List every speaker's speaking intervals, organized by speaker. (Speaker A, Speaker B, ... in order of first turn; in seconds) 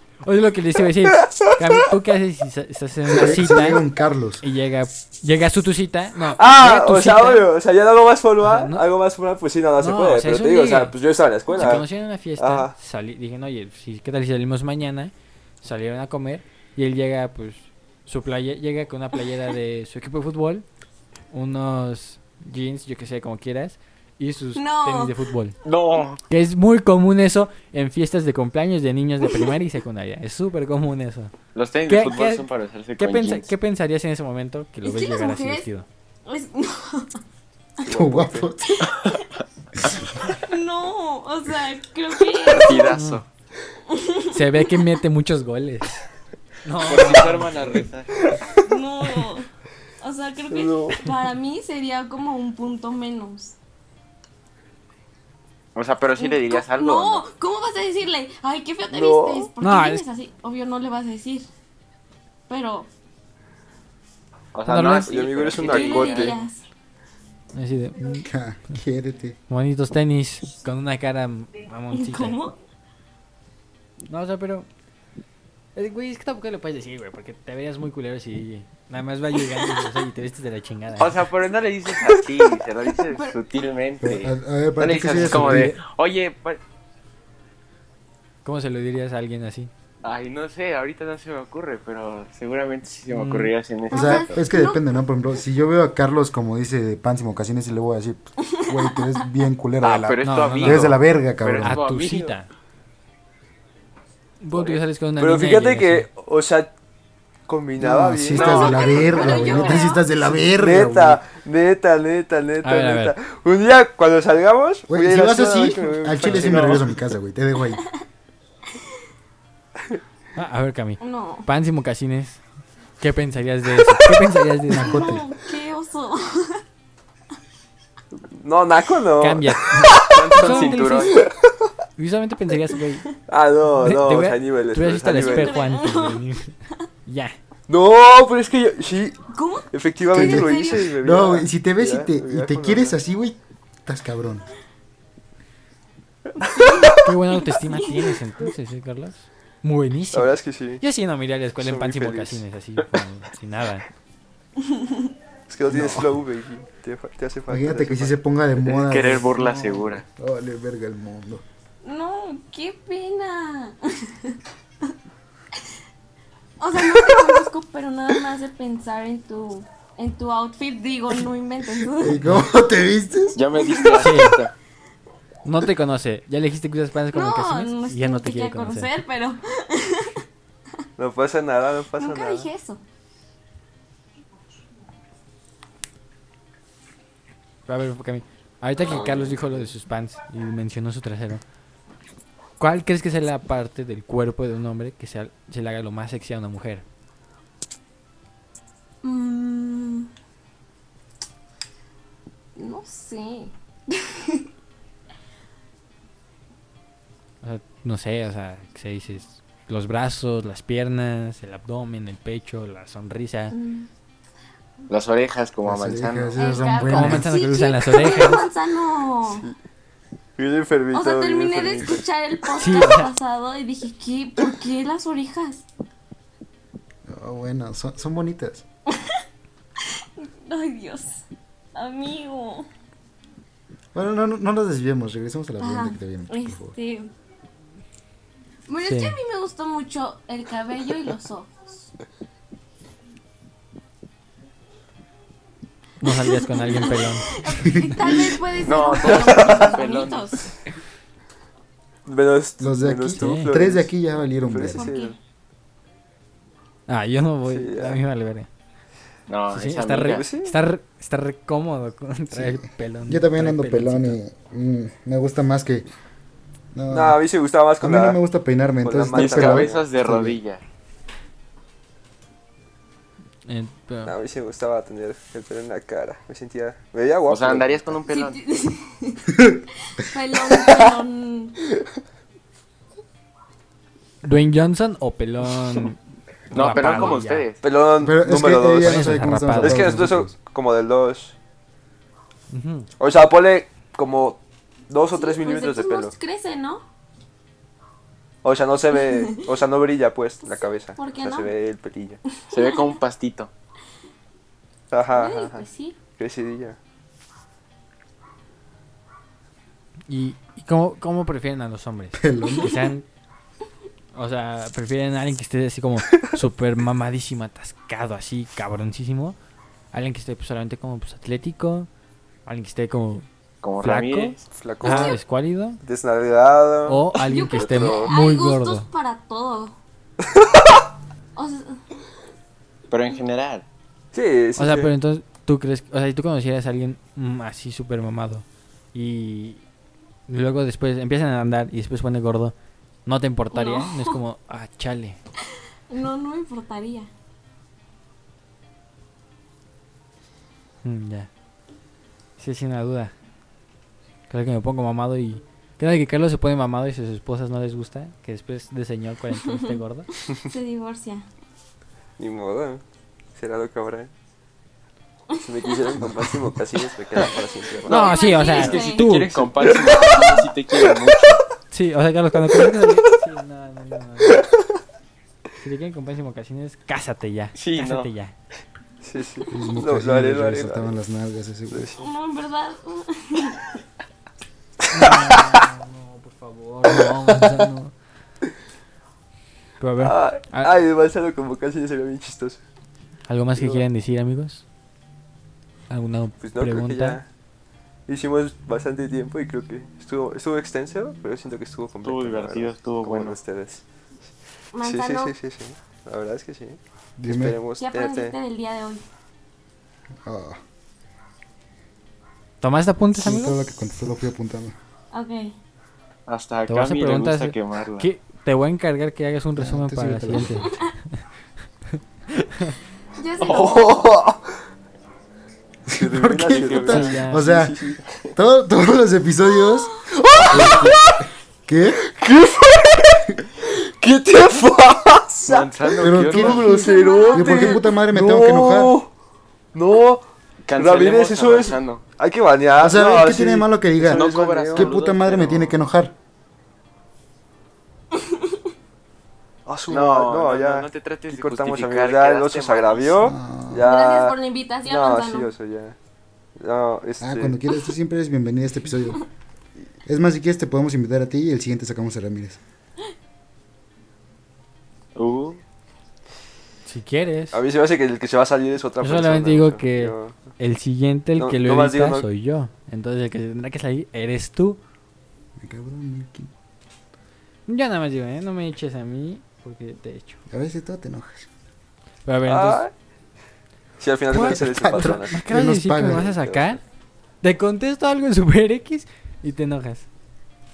Speaker A: 0.2-3.8, 4.4-7.5, 8.4-8.8, 9.8-11.0, 11.5-15.1, 15.6-20.6, 21.3-25.6, 26.3-31.3, 31.9-32.5, 33.0-35.9, 42.9-43.2, 44.3-46.0, 46.6-47.9, 59.6-60.0, 64.7-65.1, 67.5-68.2, 69.5-72.4, 74.1-74.7, 75.8-81.2, 85.1-85.8, 88.5-89.7, 93.1-93.5, 100.2-101.0, 101.6-102.5, 104.4-106.1, 112.6-113.2, 120.4-122.4, 123.0-125.2, 129.2-131.2, 132.0-133.1, 133.8-136.5, 137.1-137.4, 147.0-153.9, 172.1-172.5, 174.0-174.4, 175.4-178.9, 187.7-191.4, 192.6-196.8, 207.4-213.6, 216.9-218.4, 222.6-223.1, 238.8-239.2, 246.0-247.9, 253.1-253.5, 256.9-258.5, 259.5-264.2, 273.5-274.2, 284.2-286.0, 286.5-287.5, 288.7-290.0, 292.5-292.9, 310.1-313.1, 314.1-319.4, 319.9-321.9, 322.5-323.3, 323.8-325.8, 326.9-328.9, 334.6-339.6, 340.3-342.6, 343.1-345.2, 350.8-351.3, 352.4-353.1, 354.3-360.1, 367.9-369.8, 371.7-374.5, 375.6-378.3, 384.9-387.9, 389.8-390.8, 393.3-394.6, 395.9-397.2, 412.6-413.6, 416.7-421.2, 421.9-422.8, 426.9-427.6, 466.9-467.6, 469.0-474.8, 477.7-480.4, 482.2-482.9, 484.3-486.8, 487.4-490.1
Speaker B: 1.2-1.5, 6.4-11.9, 12.4-12.7, 37.9-38.5, 50.5-51.0, 58.9-59.5, 65.0-66.4, 105.2-106.7, 107.5-109.3, 110.5-117.0, 128.4-131.7, 133.3-135.6, 137.7-139.2, 139.7-143.0, 146.4-147.0, 150.1-150.8, 151.6-152.4, 155.5-158.1, 181.0-182.5, 219.2-219.6, 220.4-222.0, 249.0-249.8, 252.1-253.9, 254.5-255.2, 257.5-258.0, 260.0-260.6, 266.9-268.2, 268.8-269.9, 274.1-277.9, 286.7-291.4, 293.0-296.1, 298.4-302.2, 304.9-306.8, 324.5-325.2, 325.8-328.1, 330.2-330.7, 334.1-334.9, 362.2-362.8, 363.4-364.1, 365.4-368.1, 372.5-373.1, 374.3-374.6, 379.0-381.0, 381.7-382.1, 384.9-385.4, 390.0-392.6, 393.6-393.8, 396.4-397.2, 398.1-403.8, 404.8-408.4, 423.5-424.4, 426.0-428.0, 430.2-430.9, 432.0-439.1, 439.7-440.2, 440.8-444.9, 449.7-456.0, 456.6-457.6, 467.5-470.4, 471.4-472.3, 482.5-482.9, 484.0-486.8
Speaker C: 3.1-4.4, 37.9-38.8, 68.1-69.4, 84.0-85.8, 93.9-101.8, 107.8-111.2, 114.9-117.8, 124.7-125.2, 140.1-144.5, 155.7-156.2, 157.5-161.4, 171.9-173.4, 215.6-217.4, 227.1-228.6, 233.9-236.7, 247.7-247.9, 252.6-254.9, 262.3-265.9, 266.7-267.2, 267.8-270.4, 288.0-290.3, 312.2-312.7, 379.5-381.9, 407.2-407.6, 410.2-410.6, 413.2-414.8, 419.6-420.7, 425.9-427.8, 428.4-431.1, 431.7-432.0, 436.0-439.0, 442.8-446.1, 453.2-453.9, 457.2-459.2, 460.1-462.6, 475.6-476.5, 480.5-481.5, 484.5-486.3
Speaker D: 24.6-25.2, 34.8-35.7, 36.3-37.2, 38.6-39.2, 40.3-43.0, 43.9-44.7, 48.5-49.5, 50.0-53.6, 56.2-61.5, 62.5-62.9, 65.6-66.6, 71.9-72.5, 79.5-79.9, 83.1-83.4, 93.9-94.9, 98.4-99.3, 108.3-110.0, 121.0-121.5, 124.8-126.6, 135.1-136.8, 139.3-140.9, 146.4-148.2, 154.6-155.1, 161.8-164.4, 166.6-172.2, 173.6-174.3, 177.1-180.3, 182.0-182.8, 199.0-200.1, 202.6-204.5, 213.5-213.9, 216.4-219.5, 220.9-225.7, 228.9-229.2, 229.8-231.2, 231.7-232.7, 235.6-237.1, 238.7-241.9, 246.1-250.5, 254.7-255.2, 278.1-281.6, 295.1-296.8, 298.9-299.4, 300.5-301.5, 302.5-303.0, 305.1-306.0, 312.5-312.9, 324.9-325.2, 327.1-329.8, 331.4-331.8, 343.5-344.2, 345.9-347.1, 359.4-361.3, 365.3-366.0, 367.9-370.5, 382.0-383.8, 404.7-405.4, 407.8-409.0, 415.1-415.5, 420.6-420.9, 423.2-424.1, 429.6-429.9, 430.5-431.0, 436.6-437.8, 448.2-448.6, 453.8-455.5
Speaker E: 25.6-26.2, 31.6-33.5, 38.9-39.2, 42.5-43.2, 46.8-48.4, 55.8-57.2, 64.5-66.4, 81.0-86.6, 90.0-94.4, 99.8-102.3, 108.3-110.0, 116.4-116.9, 130.0-131.3, 158.6-160.1, 173.3-174.5, 214.9-216.4, 248.0-250.4, 259.3-260.3, 269.1-270.6, 277.3-278.4, 286.5-287.6, 302.5-303.5, 323.6-324.4, 332.9-333.7, 367.9-371.4, 377.6-378.1, 402.0-403.4, 416.3-418.1, 423.4-423.9, 426.4-427.2, 435.4-436.8, 440.7-442.0, 444.0-445.8, 449.9-453.3, 465.1-465.6